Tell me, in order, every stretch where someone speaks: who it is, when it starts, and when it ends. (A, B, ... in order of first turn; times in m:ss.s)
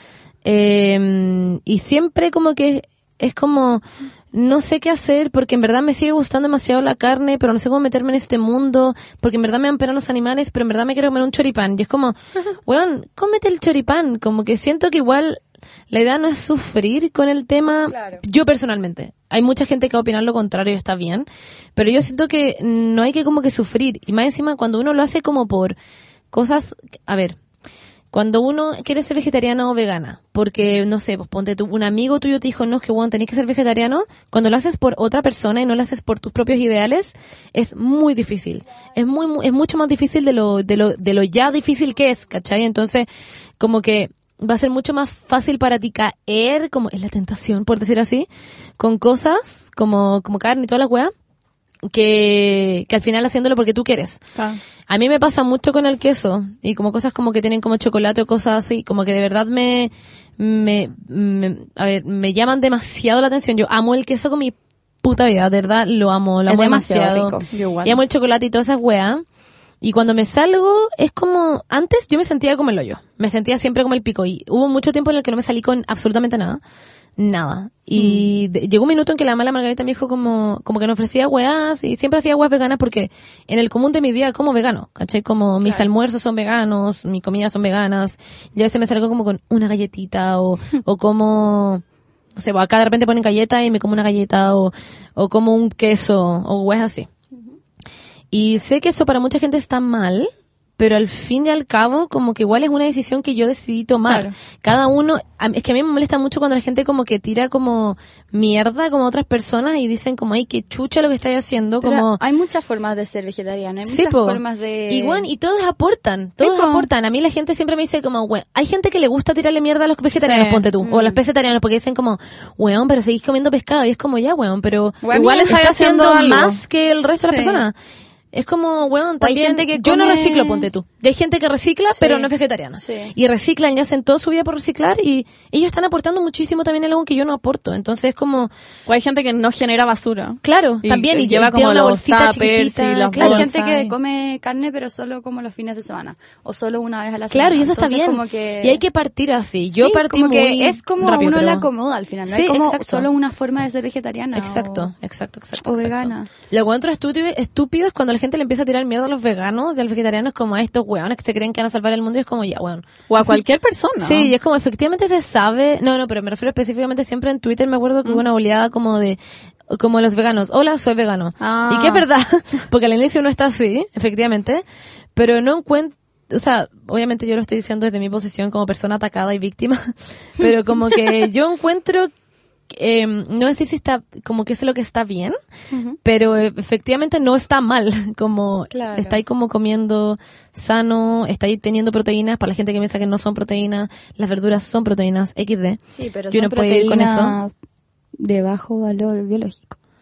0:00.4-0:12.1 A
0:12.6-0:25.8 A
0:17.9-0:18.2 B
0:26.3-0:27.4 A
0:28.1-0:43.1 A
0:43.6-0:48.3 A
0:48.8-0:51.1 A
0:51.8-0:54.2 A
0:54.9-1:09.2 A
1:06.5-1:07.5 B
1:07.5-1:07.9 C
1:09.8-1:16.6 A
1:17.2-1:31.8 A
1:32.4-1:37.1 A
1:38.3-1:52.2 A
1:51.8-1:55.2 B
1:53.8-2:07.7 A
1:56.4-1:56.9 B
2:00.2-2:00.7 C
2:00.8-2:01.2 B
2:05.0-2:05.6 B
2:05.1-2:06.6 C
2:07.0-2:07.6 B
2:08.3-2:18.5 A
2:09.2-2:10.7 B
2:11.9-2:13.1 B
2:18.9-2:23.8 C
2:20.4-2:23.6 A
2:23.2-2:28.8 B
2:27.3-2:31.7 A
2:29.7-2:34.9 B
2:32.2-2:33.1 A
2:34.3-2:42.9 A
2:35.6-2:36.3 B
2:43.1-2:44.3 C
2:44.0-2:49.2 A
2:49.7-2:54.6 A
2:51.4-2:52.0 C
2:55.1-3:02.1 A
3:02.7-3:05.4 A
3:05.7-3:06.0 B
3:06.0-3:15.8 A
3:08.7-3:09.2 B
3:16.0-3:17.5 B
3:16.3-3:17.4 A
3:18.2-3:19.8 B